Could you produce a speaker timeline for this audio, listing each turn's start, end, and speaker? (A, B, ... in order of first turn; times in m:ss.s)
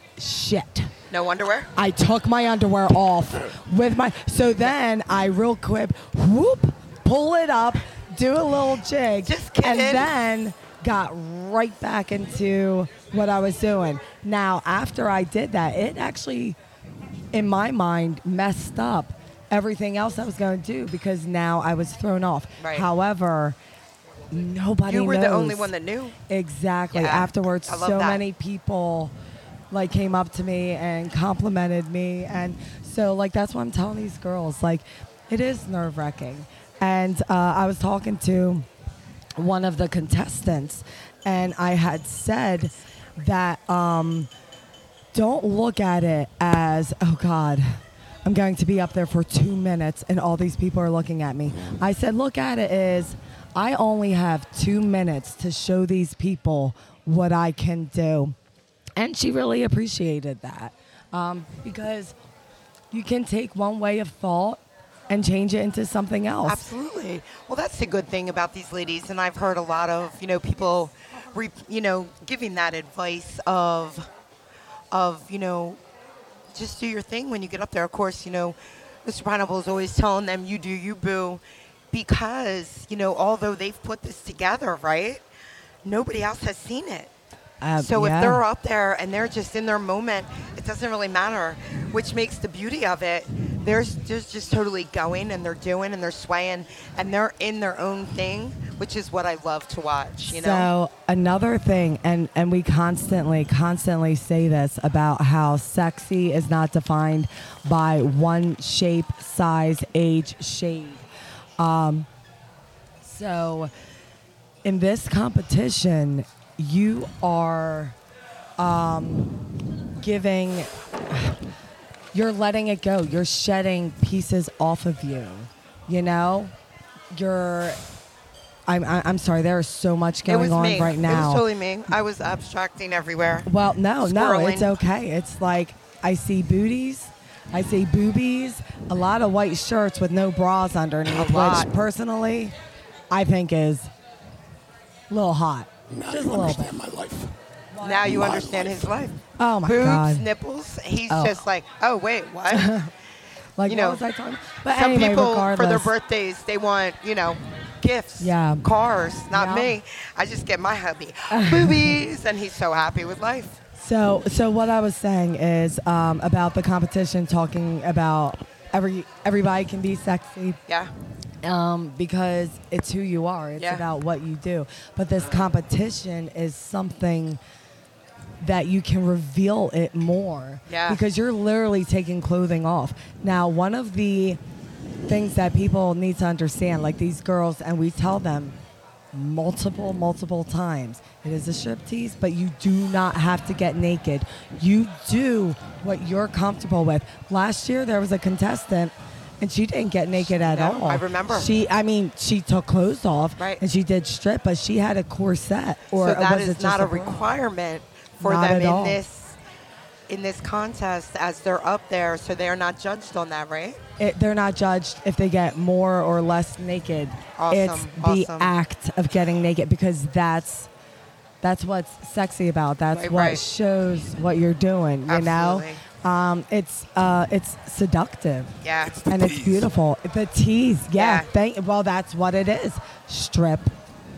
0:00.2-0:00.9 A
0:01.1-0:01.7 B
0:01.8-0:16.6 A
0:09.2-0:10.1 B
0:17.3-0:23.6 A
0:22.6-0:22.9 B
0:24.3-0:25.7 A
0:24.8-0:26.2 B
0:26.3-0:29.1 A
0:26.9-0:28.2 B
0:29.7-0:38.7 A
0:39.4-0:44.3 A
0:45.1-0:58.3 A
0:59.0-1:02.1 A
1:02.9-1:06.6 A
1:06.4-1:14.1 B
1:14.9-1:15.8 B
1:16.5-1:25.2 B
1:25.8-1:27.1 B
1:27.6-1:28.4 A
1:27.8-1:40.7 B
1:40.2-1:51.0 A
1:51.6-1:52.1 A
1:53.0-1:53.7 A
1:54.6-1:57.9 A
1:58.6-1:59.4 A
2:00.0-2:01.4 A
2:02.1-2:06.5 A
2:07.1-2:07.8 A
2:08.7-2:11.4 A
2:10.3-2:14.7 B
2:13.4-2:22.5 A
2:21.0-2:21.7 B
2:23.1-2:23.9 A
2:25.1-2:26.8 A
2:25.9-2:27.3 C
2:27.7-2:28.2 A
2:27.8-2:32.7 B
2:28.0-2:28.9 C
2:29.4-2:30.2 A
2:31.1-2:31.4 A
2:32.5-2:32.9 A
2:33.6-2:35.9 A
2:33.7-2:34.0 B
2:34.7-2:43.6 B
2:38.2-2:38.6 A
2:39.3-2:39.7 A
2:41.3-2:42.0 A
2:43.8-2:50.6 A
2:51.4-2:57.4 A
2:53.6-2:53.8 B
2:58.4-3:04.4 A
3:00.7-3:01.0 B
3:05.0-3:08.6 A
3:09.1-3:27.3 A
3:20.2-3:21.5 B
3:23.4-3:23.6 B
3:26.0-3:29.4 B
3:28.2-3:29.0 A
3:30.1-3:33.8 B
3:34.0-3:40.7 A
3:37.4-3:38.5 B
3:41.4-3:48.6 A
3:42.9-3:43.4 B
3:45.1-3:45.8 B
3:48.6-3:49.0 B
3:48.8-3:49.7 C
3:49.1-3:53.7 A
3:50.9-3:51.3 B